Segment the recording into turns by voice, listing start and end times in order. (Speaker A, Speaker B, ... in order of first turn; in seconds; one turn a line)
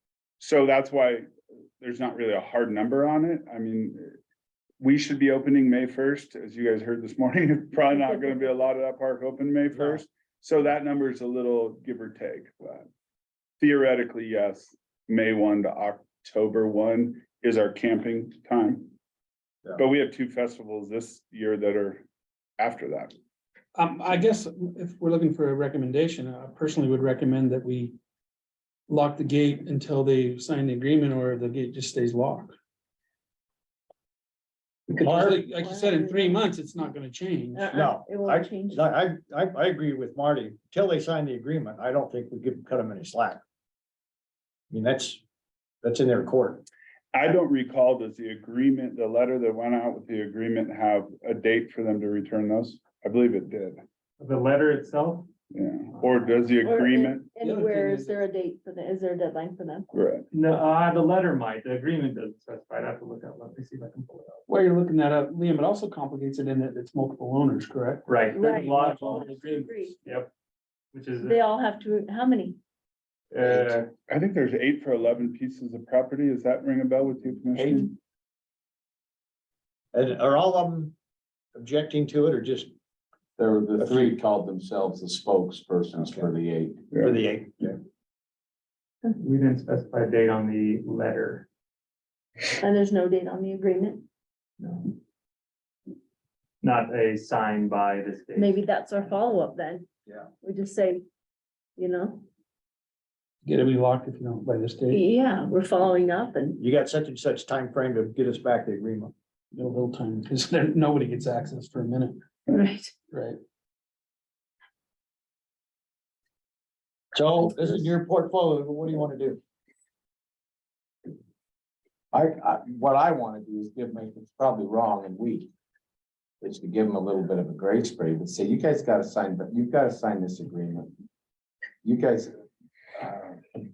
Speaker A: 0.4-1.3
Speaker A: 1.8-4.2
Speaker A: 4.8-12.9
Speaker B: 9.8-10.0
Speaker A: 13.6-18.9
Speaker A: 19.8-22.1
Speaker A: 22.6-23.1
Speaker C: 23.8-28.0
Speaker C: 28.9-32.5
Speaker C: 34.9-37.7
Speaker B: 35.0-35.5
Speaker D: 35.5-36.8
Speaker D: 37.5-38.9
Speaker B: 37.7-43.4
Speaker B: 44.7-45.2
Speaker B: 45.8-46.6
Speaker A: 47.1-53.8
Speaker E: 54.2-55.3
Speaker A: 55.5-57.3
Speaker D: 56.6-59.9
Speaker C: 57.4-58.2
Speaker A: 59.9-60.3
Speaker E: 60.3-64.4
Speaker C: 64.5-68.1
Speaker E: 68.1-70.3
Speaker D: 68.3-69.9
Speaker C: 68.8-69.1
Speaker E: 70.9-71.4
Speaker D: 71.2-72.6
Speaker E: 73.3-73.9
Speaker A: 74.1-77.9
Speaker B: 77.5-77.8
Speaker B: 79.9-80.9
Speaker B: 81.5-82.7
Speaker F: 83.4-86.8
Speaker B: 87.0-87.8
Speaker E: 89.2-91.5
Speaker D: 92.6-94.0
Speaker E: 94.6-95.0
Speaker E: 96.6-99.1
Speaker D: 98.4-99.9
Speaker D: 100.4-101.0
Speaker D: 101.8-102.2
Speaker C: 103.5-105.0
Speaker D: 104.9-106.6
Speaker B: 106.6-109.1
Speaker C: 109.5-112.4
Speaker D: 112.5-112.9
Speaker C: 113.1-113.4
Speaker B: 117.1-119.4
Speaker F: 122.1-125.5
Speaker F: 126.4-130.9
Speaker F: 131.8-132.4
Speaker F: 133.0-133.3